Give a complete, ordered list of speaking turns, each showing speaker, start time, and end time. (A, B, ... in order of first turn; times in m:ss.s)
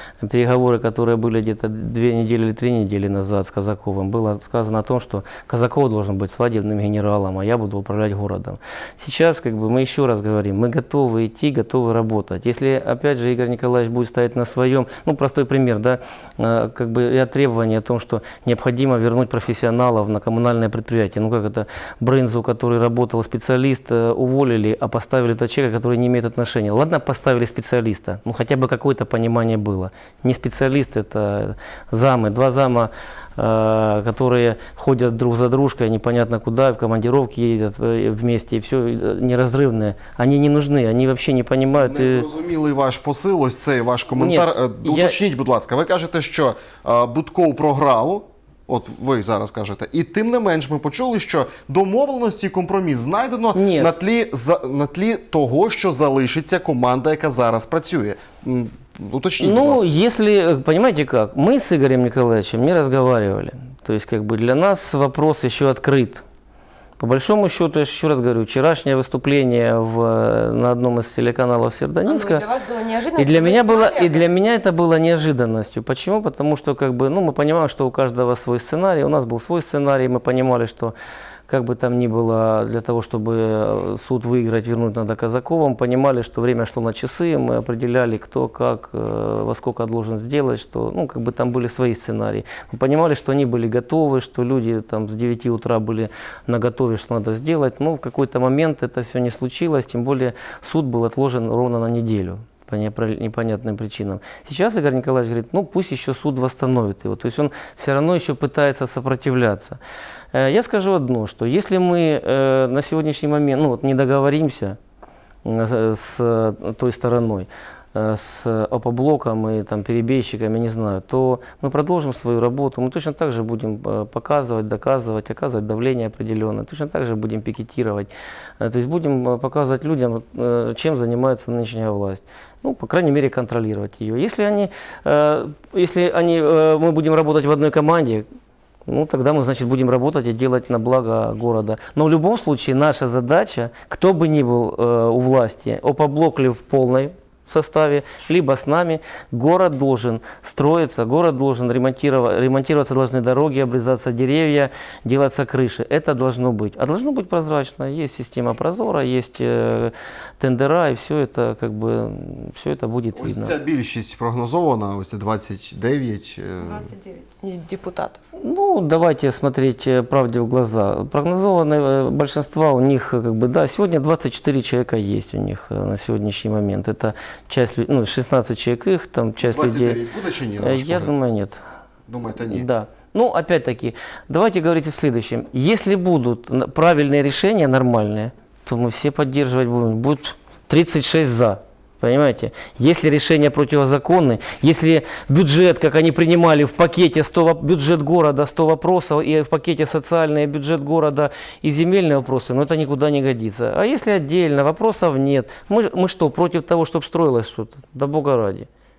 0:00.2-0:42.2 A
0:41.8-0:59.9 B
0:44.2-0:45.2 A
0:53.5-0:53.9 A
0:59.4-1:06.2 A
1:07.0-1:12.4 A
1:12.0-1:14.2 C
1:13.2-1:20.9 A
1:21.5-1:49.8 A
1:50.3-1:54.8 A
1:55.4-2:18.2 A
2:18.8-2:43.6 A
2:43.1-2:46.9 B
2:46.6-2:48.2 C
2:48.3-3:00.0 A
2:59.4-3:01.1 B
3:00.6-3:01.6 A
3:02.1-3:02.7 B
3:02.5-3:28.7 A